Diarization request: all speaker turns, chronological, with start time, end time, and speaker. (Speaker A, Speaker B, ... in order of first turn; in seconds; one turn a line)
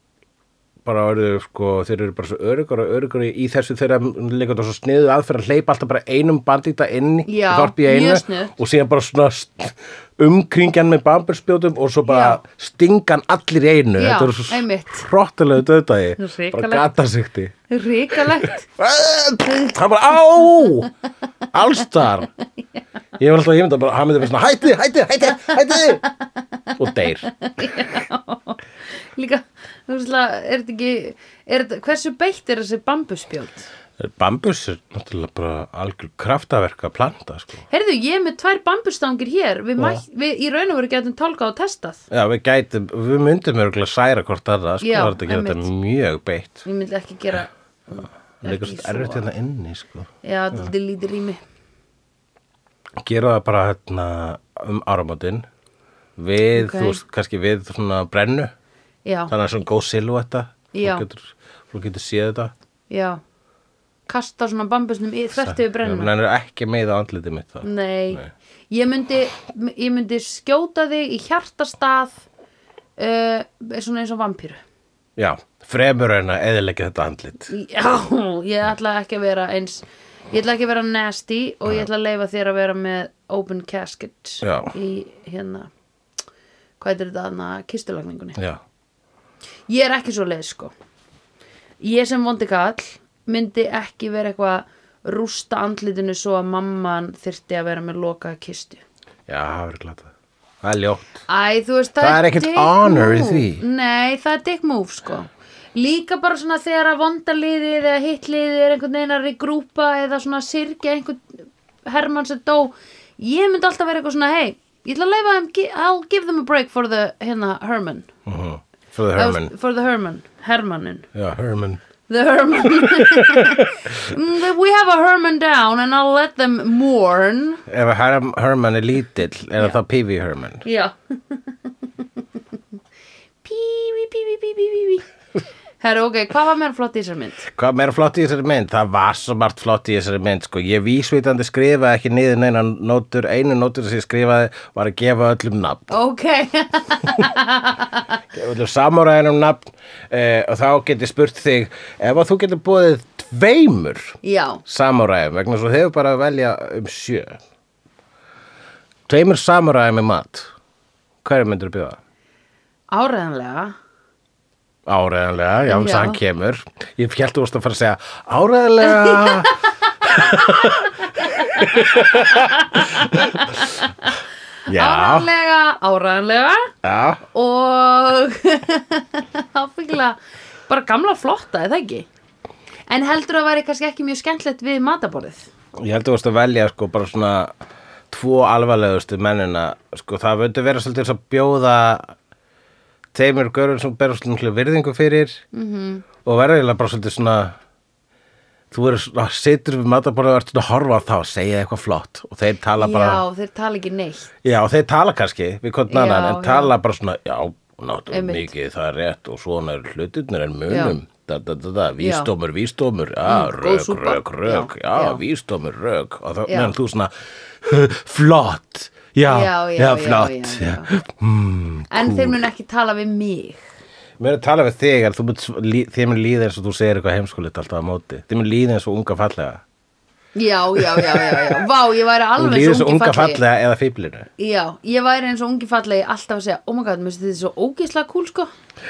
Speaker A: 0.8-17.6
Speaker B: 7.3-8.6
Speaker B: 12.1-12.4
Speaker B: 14.0-15.1
Speaker B: 16.2-16.9
Speaker B: 17.7-18.7
Speaker A: 18.1-20.9
Speaker A: 21.5-22.3
Speaker A: 23.2-26.0
Speaker A: 26.8-27.3
Speaker B: 27.3-28.6
Speaker B: 29.1-33.7
Speaker A: 34.0-37.6
Speaker B: 37.7-42.0
Speaker A: 39.8-40.0
Speaker A: 42.1-46.6
Speaker B: 44.8-45.7
Speaker B: 46.6-49.2
Speaker A: 48.4-50.7
Speaker B: 50.2-51.4
Speaker A: 53.0-55.5
Speaker A: 56.2-58.5
Speaker B: 56.5-57.0
Speaker B: 59.0-59.3
Speaker A: 59.3-62.5
Speaker B: 60.7-61.1
Speaker B: 62.9-63.2
Speaker B: 64.1-66.1
Speaker A: 65.4-68.3
Speaker B: 67.6-72.2
Speaker B: 73.0-74.6
Speaker A: 75.2-77.5
Speaker B: 77.5-85.7
Speaker A: 84.4-84.7
Speaker B: 86.8-88.4
Speaker B: 89.7-90.7
Speaker B: 91.8-98.8
Speaker A: 99.3-100.1
Speaker A: 100.6-101.2
Speaker B: 101.3-118.1
Speaker A: 102.0-103.6
Speaker A: 118.3-119.5
Speaker B: 119.2-121.1
Speaker A: 121.1-121.8
Speaker B: 122.1-127.6
Speaker A: 122.7-124.1
Speaker A: 127.7-130.6
Speaker B: 130.6-131.5
Speaker B: 133.4-135.1
Speaker B: 135.8-137.4
Speaker A: 137.5-145.9
Speaker B: 145.9-148.1
Speaker A: 148.3-157.4
Speaker B: 154.2-154.6
Speaker A: 159.1-160.5
Speaker A: 161.2-162.0
Speaker B: 162.9-163.8
Speaker A: 164.9-173.8
Speaker B: 165.7-166.2
Speaker B: 168.9-174.1
Speaker A: 174.7-175.3
Speaker B: 174.7-176.7
Speaker A: 176.8-177.2
Speaker B: 177.3-180.2
Speaker B: 180.7-182.1
Speaker B: 182.9-185.5
Speaker A: 185.7-187.5
Speaker A: 188.1-192.1
Speaker A: 193.1-195.4
Speaker B: 195.5-196.1
Speaker A: 196.2-197.6
Speaker A: 198.7-203.2
Speaker B: 202.8-204.3
Speaker A: 204.4-222.4
Speaker B: 205.9-206.7
Speaker B: 208.1-208.5
Speaker B: 210.7-210.9
Speaker B: 212.0-212.3
Speaker B: 213.3-215.2
Speaker B: 216.5-216.7
Speaker B: 219.3-220.9
Speaker B: 221.9-223.6
Speaker A: 224.2-229.6
Speaker B: 230.3-233.4
Speaker A: 230.7-231.7
Speaker A: 232.4-234.3
Speaker B: 234.4-238.5